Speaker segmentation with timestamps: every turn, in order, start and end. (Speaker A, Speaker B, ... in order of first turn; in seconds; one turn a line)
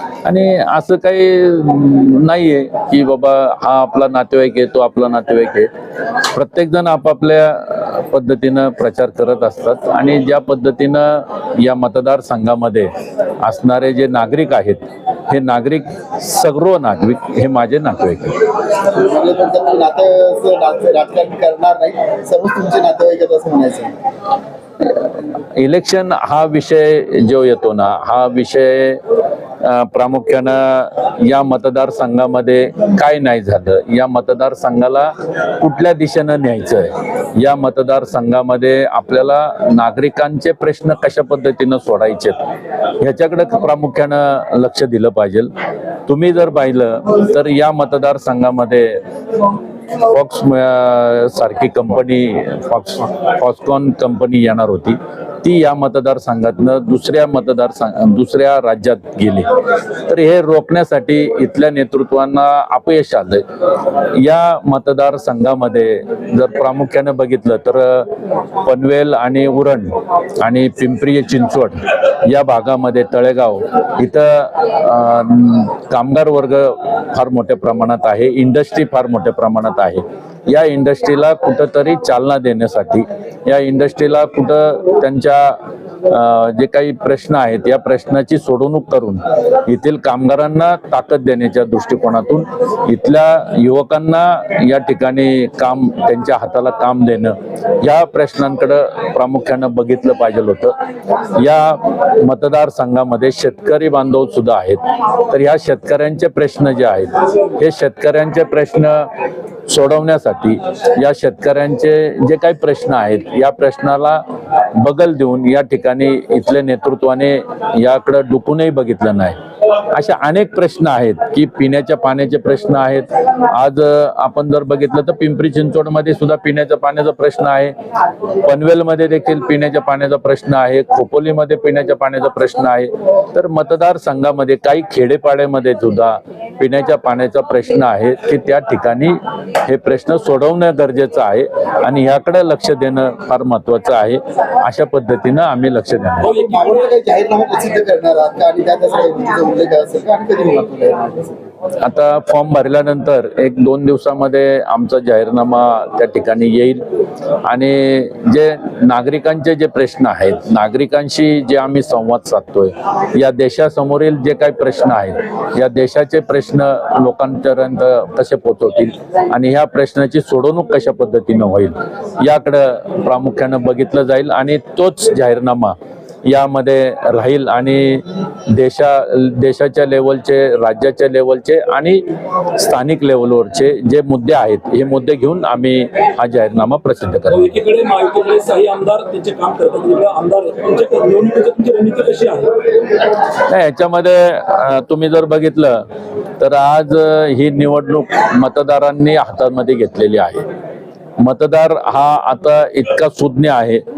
Speaker A: 0.2-5.7
Speaker A: 6.2-12.9
Speaker A: 13.4-18.4
Speaker B: 18.9-23.9
Speaker A: 24.8-29.0
Speaker A: 29.6-42.4
Speaker A: 43.0-45.5
Speaker A: 46.1-49.0
Speaker A: 49.9-59.5
Speaker A: 60.0-63.4
Speaker A: 64.1-68.1
Speaker A: 68.6-100.8
Speaker A: 101.3-109.1
Speaker A: 109.7-114.2
Speaker A: 114.7-119.4
Speaker A: 119.9-127.7
Speaker A: 128.4-146.3
Speaker C: 146.2-146.9
Speaker B: 146.3-151.4
Speaker A: 151.8-156.8
Speaker A: 157.4-175.7
Speaker A: 176.2-182.0
Speaker A: 182.6-187.5
Speaker C: 187.3-192.6
Speaker A: 193.4-195.8
Speaker A: 196.4-200.4
Speaker A: 201.2-203.8